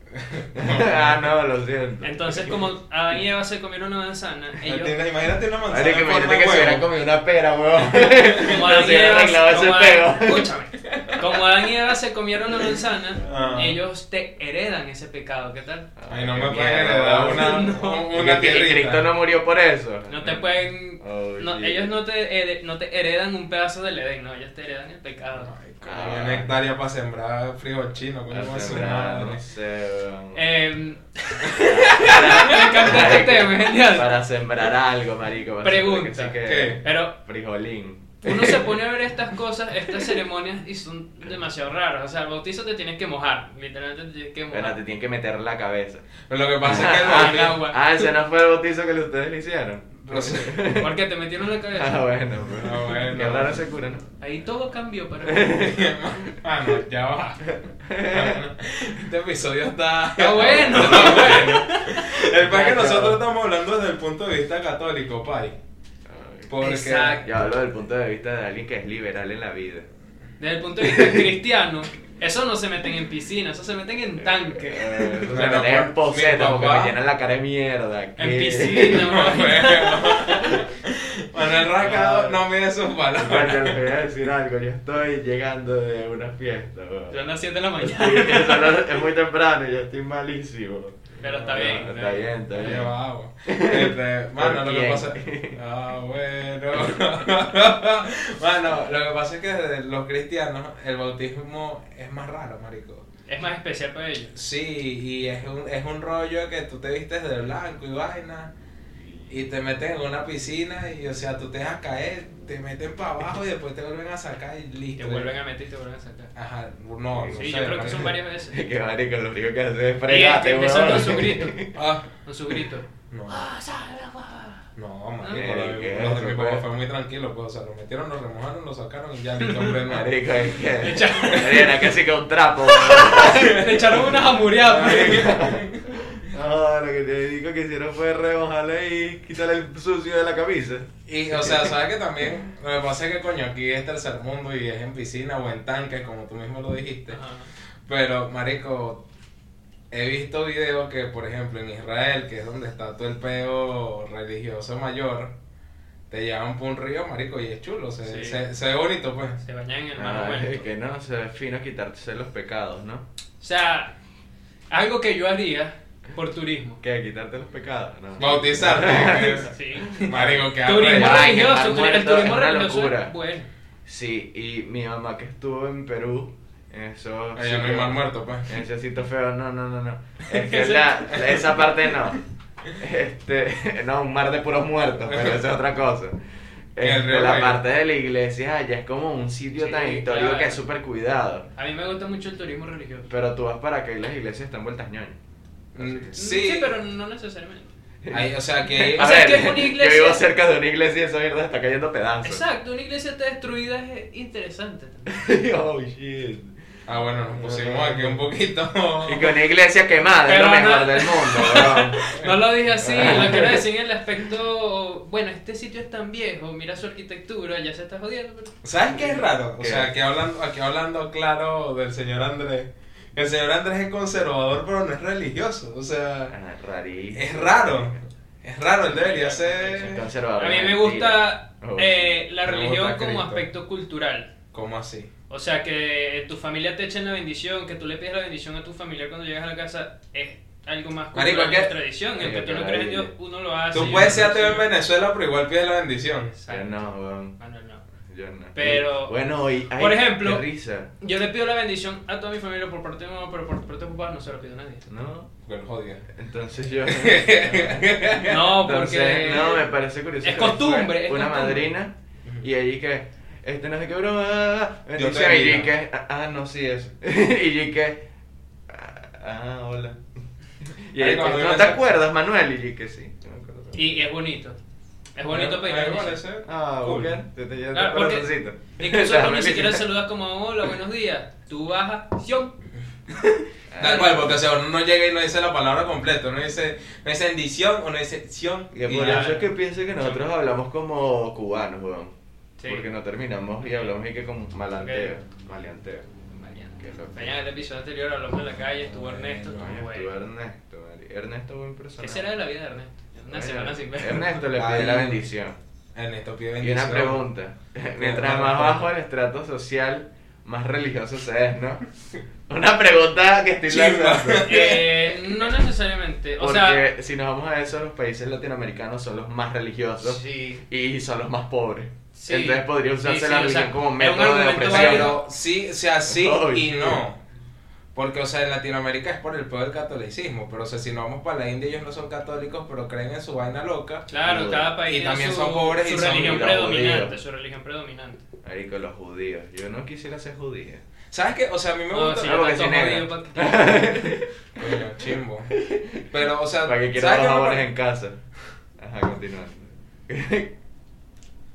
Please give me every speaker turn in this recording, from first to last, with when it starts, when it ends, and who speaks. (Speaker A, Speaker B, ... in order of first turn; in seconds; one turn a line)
Speaker A: 0.2-1.2
Speaker B: 0.6-2.5
Speaker C: 2.0-5.0
Speaker A: 4.6-6.9
Speaker B: 5.7-10.5
Speaker A: 7.9-8.5
Speaker C: 8.4-18.2
Speaker A: 13.2-13.8
Speaker B: 16.0-17.6
Speaker A: 16.1-19.1
Speaker B: 18.1-20.5
Speaker C: 20.1-25.5
Speaker B: 21.0-21.9
Speaker A: 25.3-29.4
Speaker B: 25.8-26.5
Speaker B: 28.3-30.4
Speaker C: 30.3-34.1
Speaker B: 31.5-38.7
Speaker C: 35.6-37.2
Speaker A: 36.4-36.8
Speaker C: 38.2-44.8
Speaker B: 44.5-46.1
Speaker A: 46.3-47.6
Speaker B: 46.6-50.9
Speaker C: 47.1-48.1
Speaker A: 50.0-50.5
Speaker C: 50.7-52.1
Speaker B: 51.7-54.0
Speaker A: 52.5-53.6
Speaker C: 54.2-55.7
Speaker B: 55.2-55.7
Speaker A: 55.5-65.6
Speaker B: 57.9-58.4
Speaker C: 60.2-61.8
Speaker B: 60.3-61.7
Speaker B: 62.3-63.2
Speaker B: 66.1-66.5
Speaker A: 66.5-67.2
Speaker C: 66.6-67.2
Speaker B: 67.2-69.9
Speaker C: 70.4-75.4
Speaker B: 70.8-71.3
Speaker B: 74.5-79.3
Speaker A: 75.3-77.0
Speaker C: 78.2-80.4
Speaker A: 78.9-83.8
Speaker B: 81.7-82.5
Speaker B: 83.2-92.9
Speaker C: 87.1-88.8
Speaker C: 91.2-92.8
Speaker A: 91.2-91.8
Speaker A: 92.6-103.0
Speaker B: 93.5-95.6
Speaker C: 103.3-104.3
Speaker A: 104.3-108.5
Speaker B: 109.0-109.3
Speaker A: 109.3-115.3
Speaker C: 115.0-116.3
Speaker A: 116.3-118.2
Speaker B: 117.1-117.5
Speaker C: 117.3-118.6
Speaker B: 118.5-121.8
Speaker C: 120.0-121.6
Speaker A: 121.7-122.1
Speaker C: 122.2-124.7
Speaker A: 123.1-123.5
Speaker A: 124.8-130.1
Speaker C: 125.2-125.5
Speaker B: 125.3-126.7
Speaker C: 129.4-129.8
Speaker B: 129.9-133.5
Speaker C: 130.8-131.9
Speaker C: 132.7-135.6
Speaker A: 133.2-134.1
Speaker A: 134.6-135.7
Speaker B: 134.7-141.7
Speaker A: 141.1-147.2
Speaker C: 147.1-147.5
Speaker A: 147.9-149.1
Speaker A: 149.9-155.3
Speaker A: 156.1-159.4
Speaker C: 158.0-158.4
Speaker C: 159.4-160.7
Speaker B: 160.0-163.1
Speaker C: 163.4-163.9
Speaker C: 164.7-166.8
Speaker B: 166.8-173.1
Speaker A: 168.2-169.5
Speaker C: 169.5-173.5
Speaker A: 170.0-171.2
Speaker B: 173.9-182.2
Speaker A: 177.3-178.6
Speaker C: 180.3-181.5
Speaker A: 181.3-181.6
Speaker B: 182.8-186.2
Speaker A: 185.0-185.4
Speaker B: 186.8-191.5
Speaker A: 186.8-187.6
Speaker C: 189.6-190.6
Speaker C: 191.6-193.1
Speaker B: 193.1-195.2
Speaker B: 195.7-196.2
Speaker A: 195.8-196.8
Speaker C: 196.1-197.7
Speaker B: 198.0-202.4
Speaker A: 198.1-199.3
Speaker C: 198.9-200.2
Speaker C: 202.2-205.1
Speaker B: 205.1-206.5
Speaker A: 206.9-209.3
Speaker B: 207.2-208.2
Speaker B: 209.1-212.0
Speaker C: 210.2-219.1
Speaker A: 212.2-213.4
Speaker B: 212.8-213.6
Speaker A: 218.6-226.4
Speaker B: 219.6-219.9
Speaker B: 226.3-228.1
Speaker A: 227.1-230.0
Speaker C: 229.0-229.7
Speaker B: 229.1-232.2
Speaker C: 230.3-234.3
Speaker A: 232.4-233.5
Speaker A: 234.5-235.1
Speaker C: 235.3-244.7
Speaker A: 241.1-241.8
Speaker B: 242.2-243.1
Speaker B: 243.7-244.3
Speaker A: 243.7-246.3
Speaker C: 246.4-247.8
Speaker B: 246.5-247.4
Speaker B: 248.1-250.9
Speaker C: 248.5-249.2
Speaker C: 249.8-250.5
Speaker C: 251.0-254.9
Speaker B: 254.9-255.3
Speaker A: 255.4-256.1
Speaker B: 256.1-268.0
Speaker A: 256.9-258.6
Speaker C: 258.2-259.7
Speaker C: 260.2-261.7
Speaker A: 264.9-265.7
Speaker B: 268.7-270.0
Speaker B: 270.8-274.0
Speaker A: 271.0-271.8
Speaker C: 273.7-274.6
Speaker C: 275.2-276.2
Speaker A: 275.3-277.2
Speaker B: 276.4-279.9
Speaker C: 277.7-282.6
Speaker B: 283.7-284.4
Speaker A: 283.8-289.3
Speaker C: 283.8-284.2
Speaker B: 288.7-296.1
Speaker C: 289.0-290.2
Speaker C: 292.6-292.9
Speaker C: 294.8-295.2
Speaker C: 296.3-300.1
Speaker B: 296.8-297.4
Speaker A: 298.8-299.8
Speaker B: 299.6-302.3
Speaker C: 302.0-304.4
Speaker B: 303.3-305.6
Speaker A: 304.6-305.3
Speaker A: 305.9-307.2
Speaker B: 306.6-311.9
Speaker A: 308.0-308.9
Speaker B: 312.5-314.8
Speaker A: 313.7-315.1
Speaker C: 314.4-316.8
Speaker B: 316.4-325.2
Speaker C: 320.0-320.6
Speaker C: 322.1-325.2
Speaker A: 324.6-327.2
Speaker B: 326.1-327.0
Speaker A: 327.9-334.1
Speaker C: 334.1-338.2
Speaker B: 334.2-334.7
Speaker A: 334.9-336.5
Speaker B: 336.1-337.2
Speaker B: 338.4-340.8
Speaker A: 341.1-342.4
Speaker C: 341.9-344.1
Speaker B: 342.2-344.7
Speaker A: 344.6-345.5
Speaker B: 345.6-346.0
Speaker A: 346.1-347.7
Speaker B: 346.6-348.2
Speaker B: 348.8-350.5